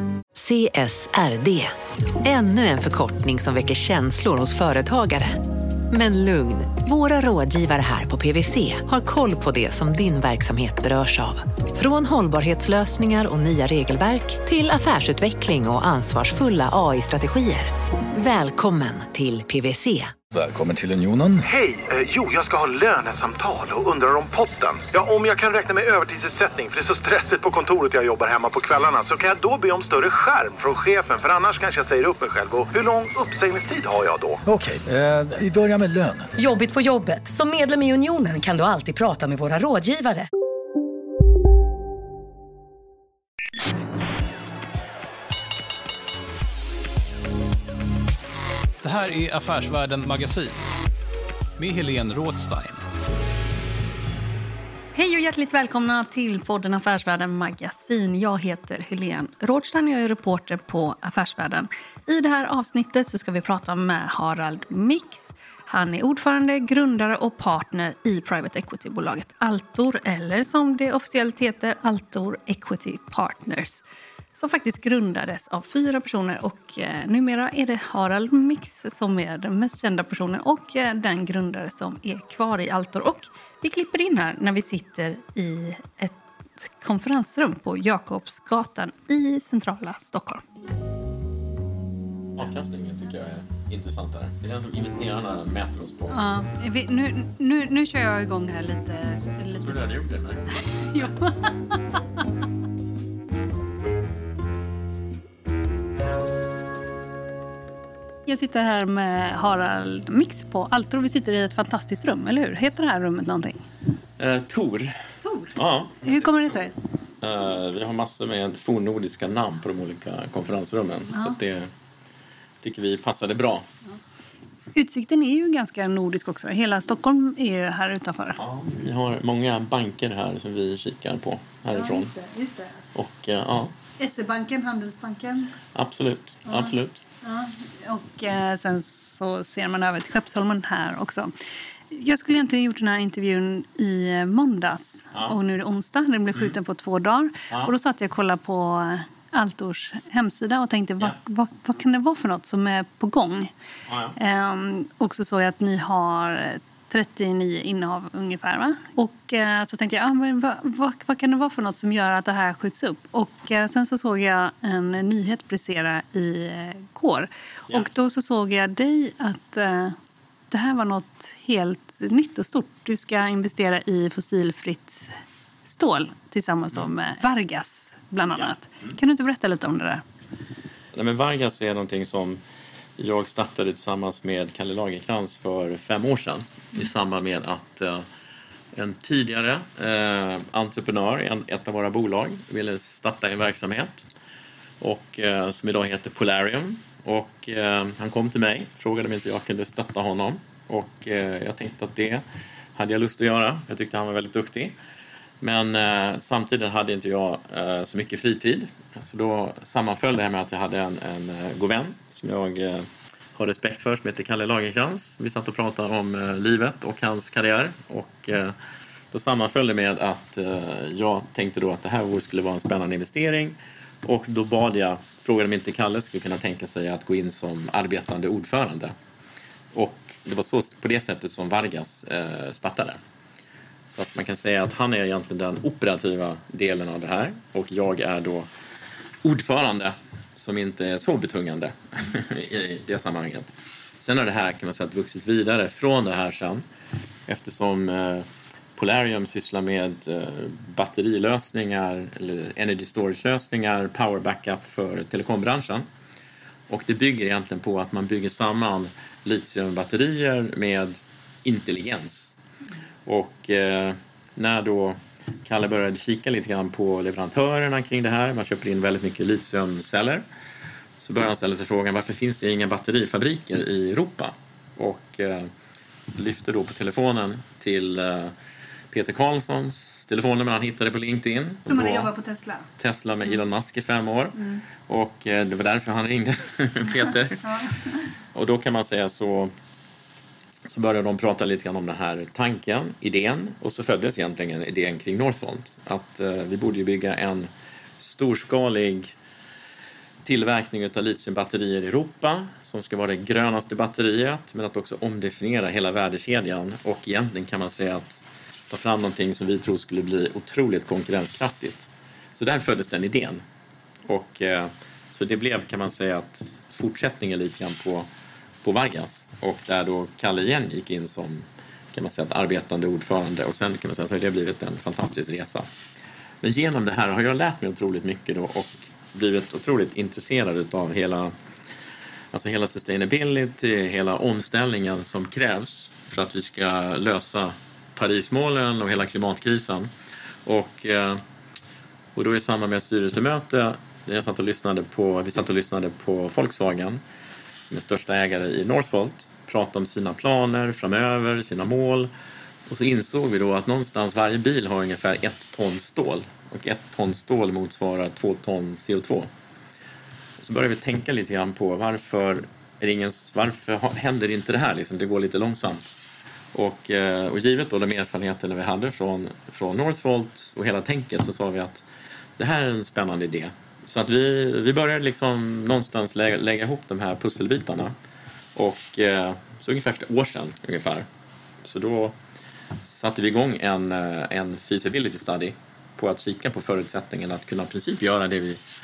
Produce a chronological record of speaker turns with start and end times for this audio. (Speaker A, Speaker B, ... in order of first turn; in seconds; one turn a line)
Speaker A: 0.3-20.1
Speaker B: 20.3-21.4
Speaker C: 21.4-34.4
Speaker B: 34.4-36.3
Speaker D: 36.4-40.3
Speaker E: 48.8-50.6
Speaker E: 51.6-52.8
Speaker F: 54.9-90.4
Speaker G: 92.3-96.2
Speaker F: 96.1-99.9
Speaker G: 99.5-100.4
Speaker F: 100.6-102.0
Speaker F: 108.2-113.6
Speaker G: 114.2-115.0
Speaker F: 115.2-116.7
Speaker G: 115.5-116.3
Speaker G: 117.2-121.7
Speaker G: 122.6-123.7
Speaker F: 124.7-128.4
Speaker G: 128.4-132.1
Speaker F: 131.7-132.8
Speaker G: 132.9-133.7
Speaker F: 134.0-135.5
Speaker G: 135.7-137.0
Speaker F: 136.5-141.3
Speaker F: 141.9-153.5
Speaker G: 153.9-154.1
Speaker F: 154.2-169.9
Speaker F: 170.5-180.0
Speaker G: 178.3-178.9
Speaker G: 180.9-182.4
Speaker G: 183.0-188.1
Speaker G: 188.7-194.1
Speaker G: 194.8-202.2
Speaker G: 202.8-204.7
Speaker G: 205.4-218.5
Speaker G: 219.1-228.9
Speaker G: 229.7-233.0
Speaker G: 233.9-238.5
Speaker G: 239.2-246.6
Speaker G: 247.3-255.8
Speaker G: 256.7-262.4
Speaker G: 263.1-270.2
Speaker G: 271.0-275.5
Speaker G: 276.1-278.3
Speaker G: 278.9-282.1
Speaker F: 281.6-282.6
Speaker G: 282.8-287.5
Speaker G: 288.3-289.5
Speaker G: 290.7-299.1
Speaker G: 300.2-313.4
Speaker G: 314.1-318.1
Speaker G: 318.6-325.7
Speaker G: 326.4-331.3
Speaker G: 332.3-339.9
Speaker G: 340.4-341.2
Speaker G: 342.1-347.0
Speaker G: 347.6-352.1
Speaker G: 352.7-359.3
Speaker G: 360.4-366.0
Speaker G: 366.5-371.9
Speaker G: 372.4-377.9
Speaker G: 378.6-381.1
Speaker G: 381.6-382.1
Speaker G: 382.8-388.6